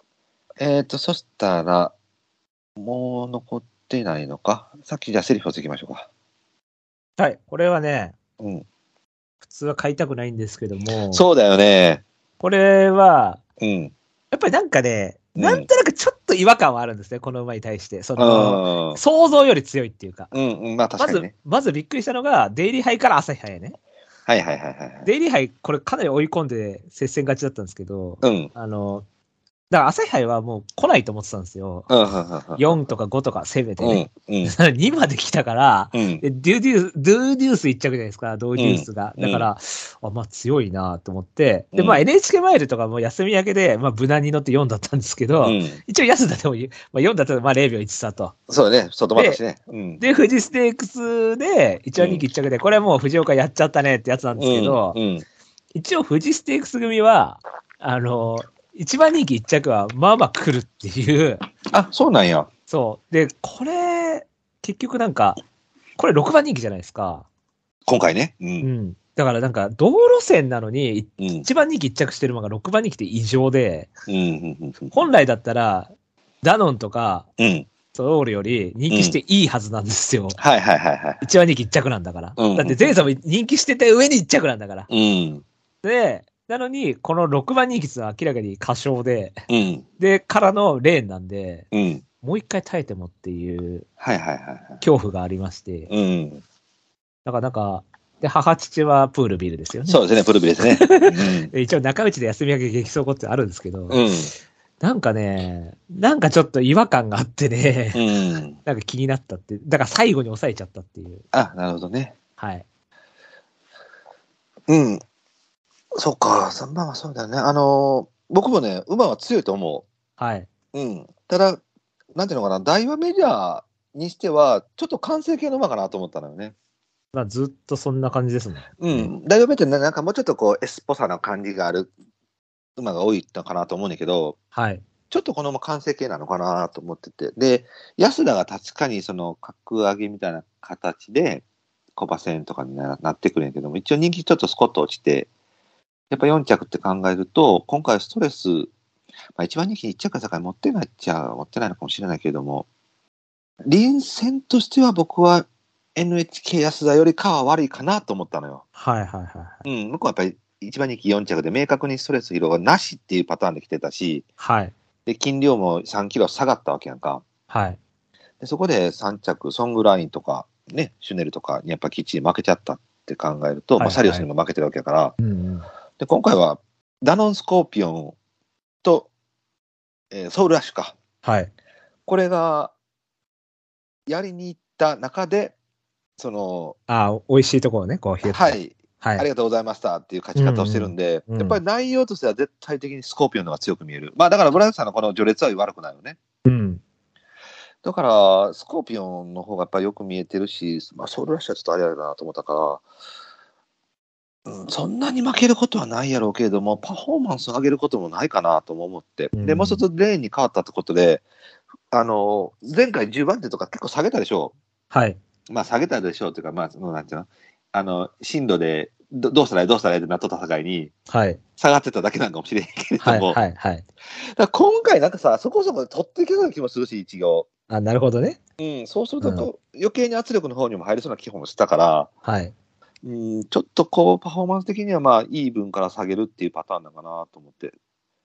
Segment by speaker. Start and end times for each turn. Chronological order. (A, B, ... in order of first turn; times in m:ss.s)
0:00.6-0:01.9 A
0:02.8-0:06.1 A
0:07.2-0:08.1 B
0:08.4-0:08.6 A
0:09.4-0:11.2 B
0:11.1-0:12.0 A
0:12.4-0:13.4 B
0:13.6-0:13.9 A
0:14.3-0:20.3 B
0:15.4-0:15.7 A
0:18.2-0:19.0 A
0:20.3-0:21.3 A
0:21.0-0:23.8 B
0:24.3-0:25.1 A
0:25.0-0:29.0 B
0:28.2-0:28.5 A
0:29.7-0:31.9 B
0:31.9-0:32.8 A
0:32.6-0:48.3 B
0:33.8-0:34.5 A
0:35.9-0:36.2 A
0:38.6-0:39.5 A
0:41.7-0:42.0 A
0:45.4-0:45.8 A
0:48.5-0:50.0 A
0:49.1-0:49.4 B
0:50.0-0:55.0 B
0:52.0-0:52.2 A
0:54.4-0:55.2 A
0:55.7-1:01.4 B
1:01.7-1:02.5 A
1:02.7-1:05.4 B
1:06.0-1:07.2 B
1:07.9-1:08.7 A
1:08.6-1:13.9 B
1:11.2-1:11.4 A
1:14.1-1:15.1 A
1:14.9-1:15.9 B
1:16.4-1:17.3 B
1:17.4-1:17.7 A
1:17.9-1:20.4 B
1:18.9-1:19.2 A
1:20.4-1:21.2 A
1:21.2-1:24.9 B
1:22.4-1:23.0 A
1:24.9-1:25.4 A
1:25.8-1:29.4 B
1:29.5-1:29.8 A
1:30.0-1:31.7 B
1:31.7-1:32.0 A
1:32.2-1:33.9 B
1:34.0-1:34.8 A
1:34.8-1:35.9 B
1:35.9-1:36.4 A
1:37.2-1:40.0 B
1:39.8-1:41.5 A
1:40.6-1:44.0 B
1:43.9-1:44.3 A
1:44.8-1:48.0 B
1:47.9-1:48.6 A
1:48.6-1:51.2 B
1:51.3-1:52.1 A
1:52.4-1:52.6 B
1:54.7-1:55.0 A
1:56.0-1:59.8 A
2:00.2-2:00.5 B
2:00.7-2:01.6 A
2:02.1-2:06.5 A
2:07.1-2:09.1 B
2:08.8-2:11.9 A
2:12.8-2:14.4 A
2:14.5-2:14.8 B
2:15.1-2:21.4 A
2:22.0-2:25.3 A
2:26.1-2:28.7 A
2:29.4-2:32.7 A
2:33.6-2:38.6 A
2:38.8-2:39.6 B
2:39.6-2:44.2 A
2:44.4-2:44.7 B
2:45.0-2:47.2 A
2:47.5-2:47.8 B
2:48.4-2:55.1 A
2:53.8-2:54.2 B
2:55.2-2:55.7 B
2:56.0-2:58.1 A
2:58.8-2:59.1 A
3:00.1-3:01.0 A
3:01.2-3:01.5 B
3:02.1-3:02.7 A
3:04.1-3:05.5 A
3:06.2-3:06.8 A
3:06.9-3:09.2 B
3:08.2-3:16.2 A
3:10.3-3:11.6 B
3:16.4-3:16.8 B
3:17.8-3:22.8 A
3:24.4-3:31.2 A
3:29.3-3:29.8 B
3:31.9-3:34.5 A
3:34.9-3:35.2 B
3:35.5-3:40.9 A
3:41.1-3:41.4 B
3:41.6-3:43.4 A
3:43.0-3:43.8 B
3:44.2-3:47.5 A
3:47.7-3:48.4 B
3:48.6-3:52.1 A
3:49.2-3:49.5 B
3:52.2-3:52.5 B
3:53.0-3:57.7 A